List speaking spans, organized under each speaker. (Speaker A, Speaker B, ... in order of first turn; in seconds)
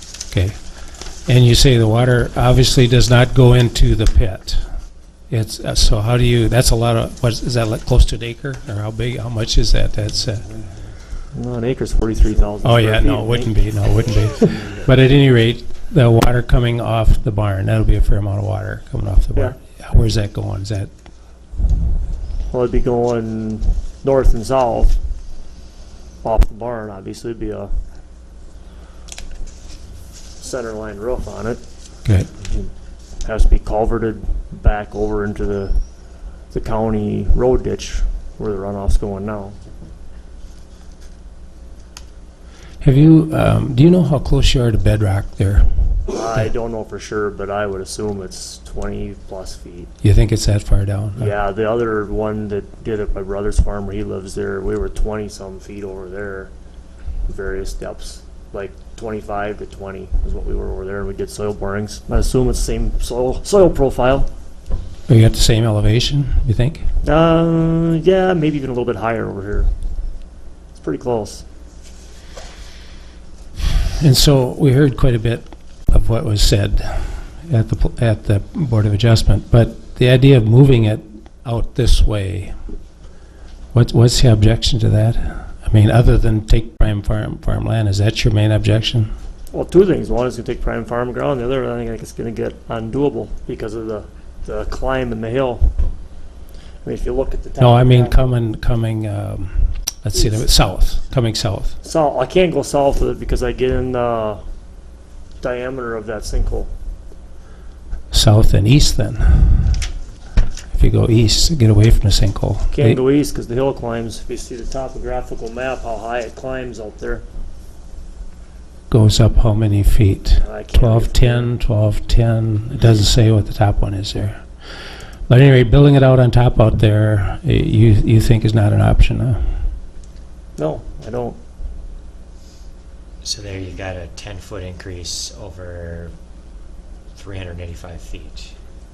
Speaker A: 0.3-0.6, 1.2-4.6, 5.3-10.4, 12.6-20.9, 42.8-46.4, 50.0-51.3, 65.1-66.8, 74.0-82.5, 83.7-89.1, 97.6-101.8, 108.1-109.8, 110.7-113.0, 118.9-124.4, 125.3-129.4
Speaker B: 11.3-13.5, 22.5-25.0, 26.2-27.7, 30.4-31.6, 33.2-35.8, 36.5-39.5, 46.1-49.9, 51.2-56.5, 57.2-64.3, 67.0-69.7, 70.7-71.4, 89.5-95.8, 96.8-98.3, 100.1-100.4, 101.8-104.4, 105.4-106.7, 112.7-117.2, 120.4-121.5, 130.6-131.4
Speaker C: 133.2-136.1, 137.1-138.5